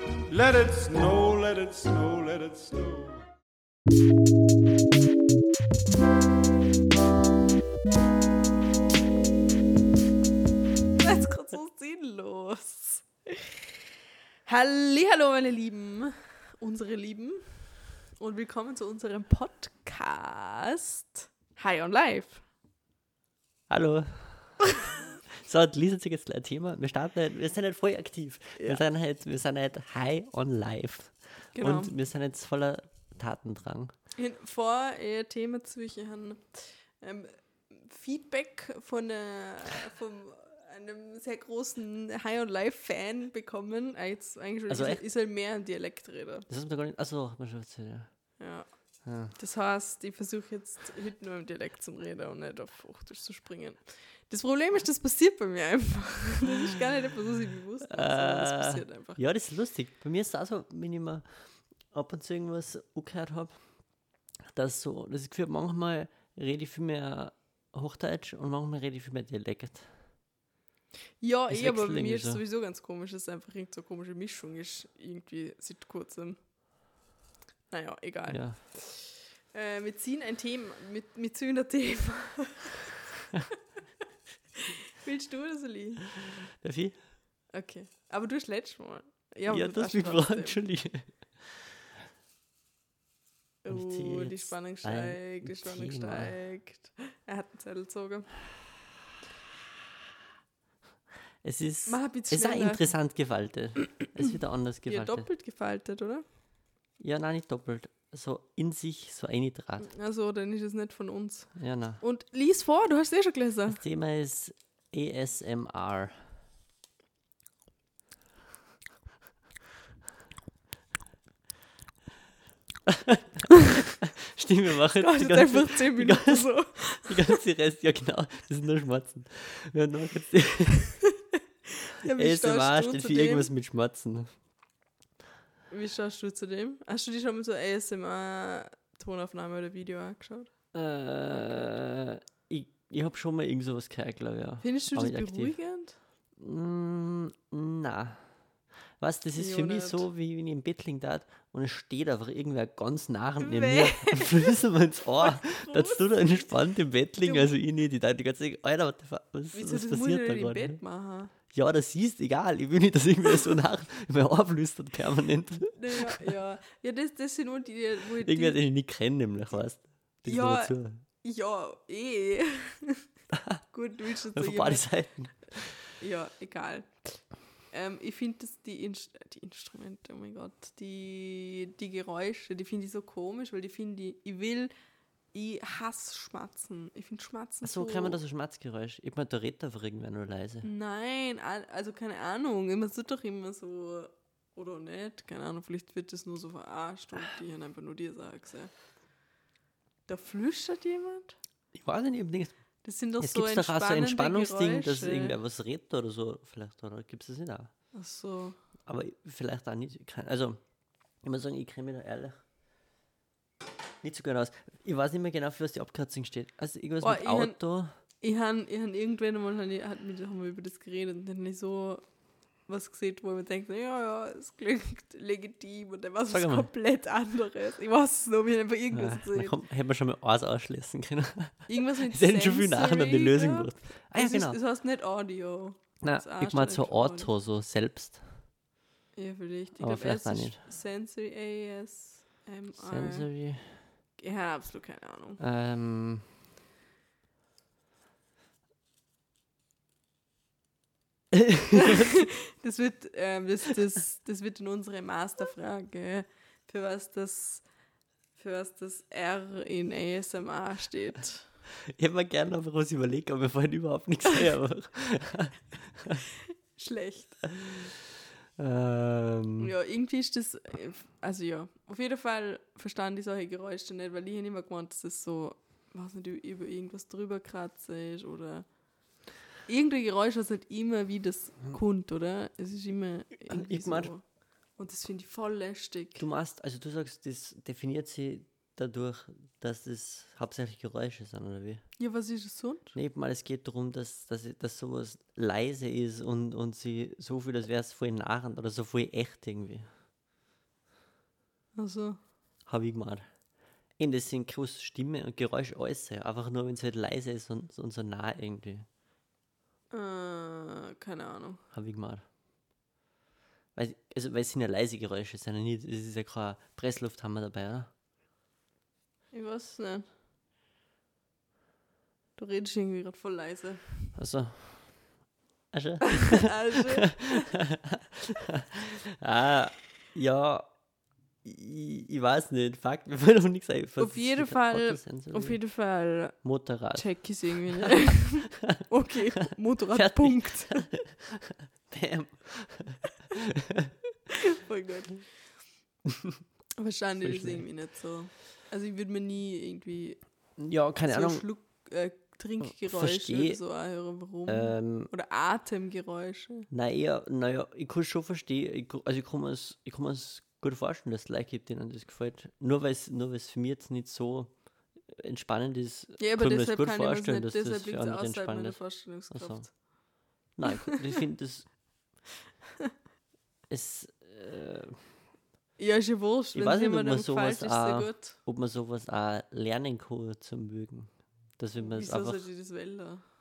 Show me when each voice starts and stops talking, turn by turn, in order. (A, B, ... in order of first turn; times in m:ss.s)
0:00.3-0:03.2 A
0:11.0-0:13.8 B
0:14.4-0:22.4 B
0:23.7-0:33.9 C
0:31.5-0:31.9 B
0:34.1-0:46.4 B
0:44.7-0:45.0 C
0:46.5-0:48.1 C
0:48.4-0:48.6 B
0:49.0-0:49.3 C
0:49.3-0:59.2 B
0:57.9-1:03.6 C
1:04.5-1:09.9 C
1:11.2-1:16.4 B
1:11.5-1:12.4 C
1:17.7-1:23.4 B
1:18.3-1:18.6 C
1:24.9-1:26.2 B
1:26.6-1:26.9 C
1:27.5-1:30.6 B
1:29.5-1:31.1 C
1:33.6-1:38.4 B
1:33.7-1:36.3 C
1:41.4-1:45.3 C
1:41.8-1:42.9 B
1:44.9-1:46.2 B
1:47.0-1:49.9 C
1:49.8-1:53.8 B
1:51.6-1:52.0 C
1:53.7-1:56.2 C
2:02.8-2:03.5 C
2:04.0-2:10.9 C
2:05.0-2:07.4 B
2:11.8-2:13.5 B
2:12.1-2:14.3 C
2:15.7-2:20.5 B
2:20.7-2:25.6 C
2:24.6-2:26.0 B
2:26.4-2:28.2 C
2:29.0-2:40.8 C
2:29.3-2:30.0 B
2:33.4-2:34.6 B
2:35.2-2:36.5 B
2:37.2-2:37.5 B
2:39.5-2:41.3 B
2:41.5-2:46.2 C
2:45.7-2:48.6 B
2:48.2-2:51.0 C
2:50.2-2:53.0 B
2:53.3-2:53.6 C
2:53.7-2:54.8 B
2:54.3-2:55.7 C
2:56.0-3:04.7 B
3:05.3-3:08.2 B
3:07.6-3:10.7 C
3:10.6-3:18.7 B
3:20.1-3:21.4 B
3:21.7-3:22.5 C
3:22.8-3:25.4 B
3:23.2-3:27.7 C
3:27.9-3:28.6 B
3:28.8-3:30.6 C
3:31.2-3:32.4 C
3:34.0-3:37.9 C
3:37.0-3:37.6 B
3:38.2-3:42.0 B
3:42.7-3:49.6 B
3:46.3-3:46.7 C
3:48.9-3:54.6 C
3:51.7-3:57.3 B
3:56.0-3:58.2 C
3:59.1-4:03.3 B
3:59.8-4:00.6 C
4:02.8-4:03.8 C
4:04.2-4:05.4 B
4:05.4-4:06.2 C
4:11.3-4:12.2 C
4:11.7-4:17.7 B
4:18.4-4:21.5 B
4:21.9-4:26.2 C
4:26.7-4:27.6 B
4:28.6-4:29.7 C
4:29.6-4:38.7 B
4:39.6-4:44.2 B
4:43.4-4:44.1 C
4:44.8-4:46.3 B
4:46.2-4:51.8 C
4:52.0-4:53.0 B
4:52.9-4:59.8 C
5:01.7-5:02.2 B
5:02.7-5:03.2 C
5:04.0-5:08.8 C
5:09.9-5:11.6 B
5:11.7-5:12.2 C
5:13.7-5:17.9 C
5:19.3-5:20.1 B
5:22.4-5:24.2 B
5:24.2-5:25.2 C
5:25.7-5:30.6 C
5:26.0-5:27.5 B
5:31.4-5:35.6 C
5:34.0-5:36.4 B
5:36.4-5:37.9 C
5:36.9-5:40.8 B
5:39.9-5:43.9 C
5:44.6-5:45.5 B
5:46.1-5:46.4 C
5:46.8-5:50.2 B
5:47.2-5:47.7 C
5:50.6-5:51.5 C
5:51.0-5:56.7 B
5:52.6-5:53.6 C
5:54.4-5:55.1 C
5:56.7-6:09.8 C
6:06.2-6:10.0 B
6:10.5-6:11.8 C
6:10.6-6:11.2 B
6:13.7-6:15.0 C
6:15.8-6:18.4 B
6:16.5-6:22.5 C
6:21.8-6:23.2 B